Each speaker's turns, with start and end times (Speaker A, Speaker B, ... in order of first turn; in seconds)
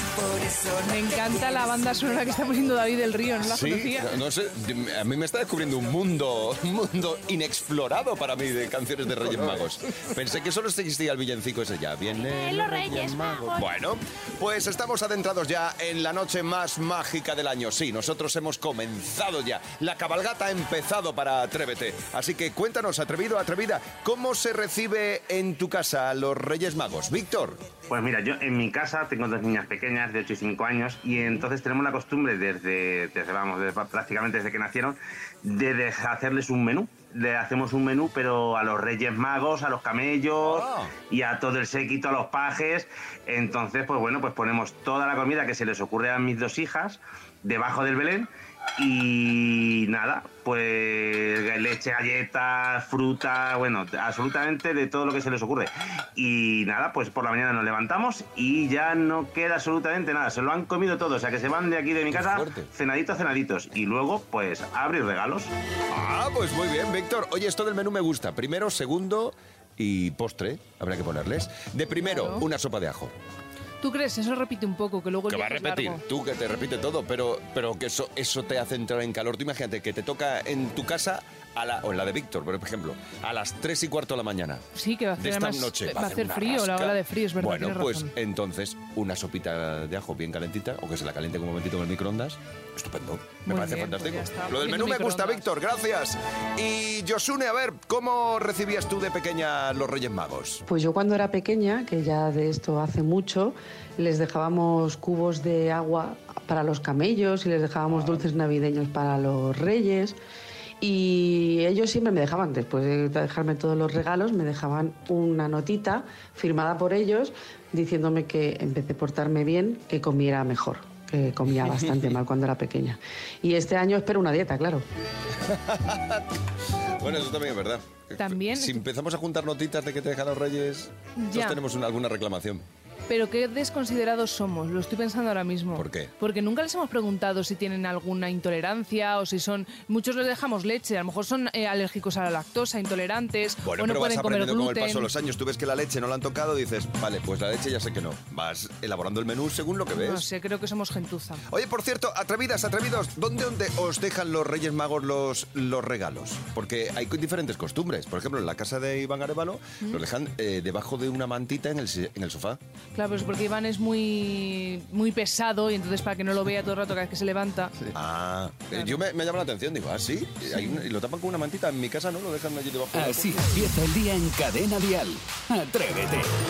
Speaker A: 0.8-4.1, 72.0-72.4, 73.8-76.0, 84.8-88.1, 93.5-95.5, 128.2-128.8, 131.2-131.6, 133.1-145.1, 149.9-151.4, 162.9-167.7, 168.7-169.0
Speaker B: 3.4-27.6, 40.4-40.9, 62.1-62.7, 65.9-73.1, 75.3-84.7, 85.2-100.6, 121.7-122.1, 125.5-126.2, 127.0-132.6, 135.8-136.1, 143.6-150.2, 151.5-162.6, 167.9-173.5
Speaker C: 27.9-65.5
Speaker D: 100.7-110.2, 110.8-124.8
Speaker E: 172.9-176.3